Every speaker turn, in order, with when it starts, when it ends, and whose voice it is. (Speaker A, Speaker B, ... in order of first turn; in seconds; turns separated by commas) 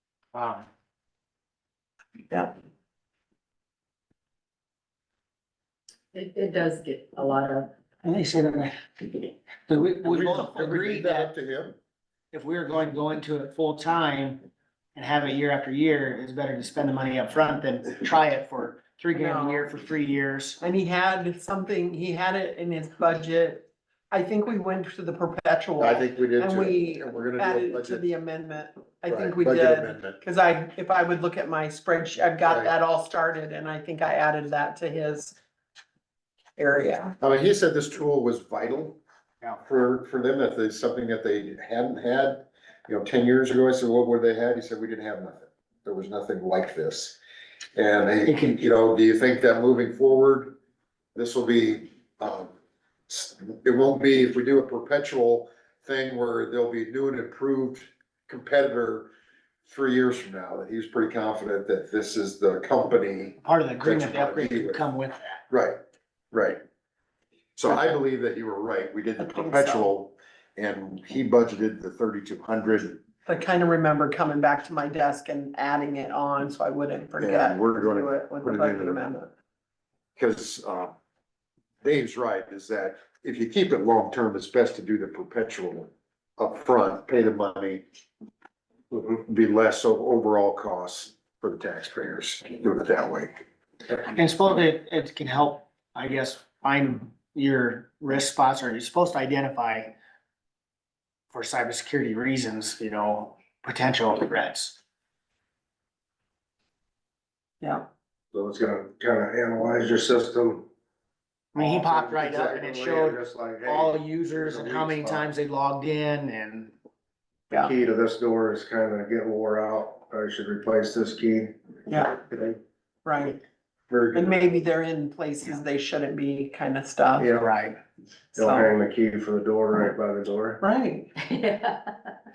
Speaker A: 0.3-0.7, Speaker B: 6.1-7.7, Speaker A: 8.0-11.3, Speaker C: 10.0-11.8, Speaker A: 12.3-14.4, Speaker A: 14.9-20.6, Speaker D: 19.1-19.7, Speaker D: 20.6-35.4, Speaker C: 25.8-28.1, Speaker C: 29.1-30.2, Speaker C: 32.5-32.7, Speaker D: 36.6-37.1, Speaker C: 37.2-39.0, Speaker C: 39.6-47.2, Speaker C: 47.8-50.5, Speaker A: 48.3-48.7, Speaker C: 51.1-52.5, Speaker C: 53.1-59.1, Speaker C: 59.7-64.8, Speaker A: 63.4-65.4, Speaker C: 65.5-65.8, Speaker C: 66.3-66.6, Speaker C: 67.6-73.0, Speaker D: 69.2-69.9, Speaker D: 73.3-79.3, Speaker C: 77.2-79.1, Speaker C: 80.2-80.9, Speaker C: 81.8-87.8, Speaker C: 89.0-93.4, Speaker A: 94.1-99.9, Speaker A: 101.3-104.8, Speaker E: 108.3-110.7, Speaker A: 111.5-116.7, Speaker E: 111.6-115.3, Speaker E: 117.5-121.5, Speaker D: 121.9-122.2, Speaker E: 122.3-122.6, Speaker D: 123.0-123.4, Speaker C: 123.9-124.4, Speaker D: 124.1-127.3, Speaker E: 127.2-127.6, Speaker A: 127.3-127.8, Speaker D: 128.3-128.7, Speaker E: 128.4-130.6, Speaker D: 130.6-131.1, Speaker B: 131.2-132.1